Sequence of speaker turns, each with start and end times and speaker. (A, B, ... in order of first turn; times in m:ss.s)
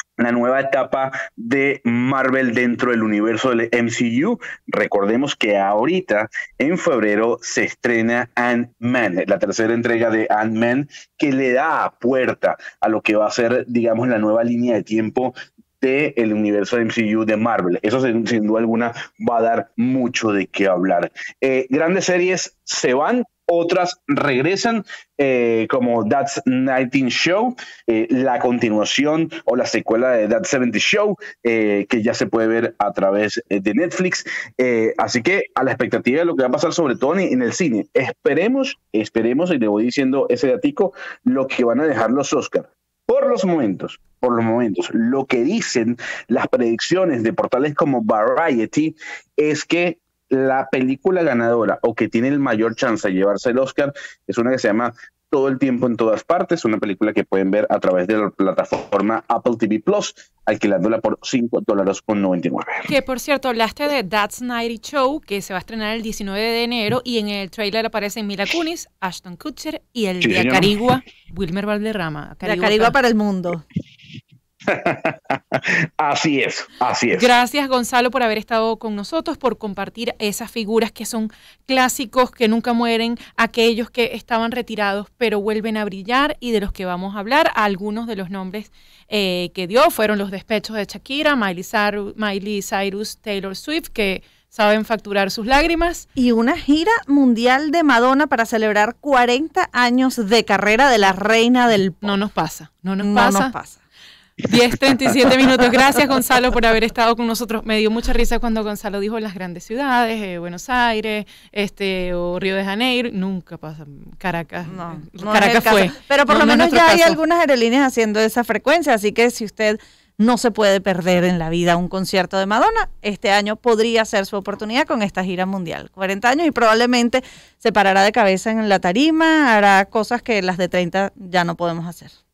0:00.2-1:02.9 A
1:02.9-1:12.9 B
1:10.2-1:10.7 A
1:12.4-1:13.6 C
1:14.7-1:17.3 A
1:17.1-1:36.0 B
1:36.2-1:42.1 C
1:42.0-1:43.5 B
1:43.0-1:43.8 C
1:44.4-1:57.2 B
1:54.7-2:12.1 C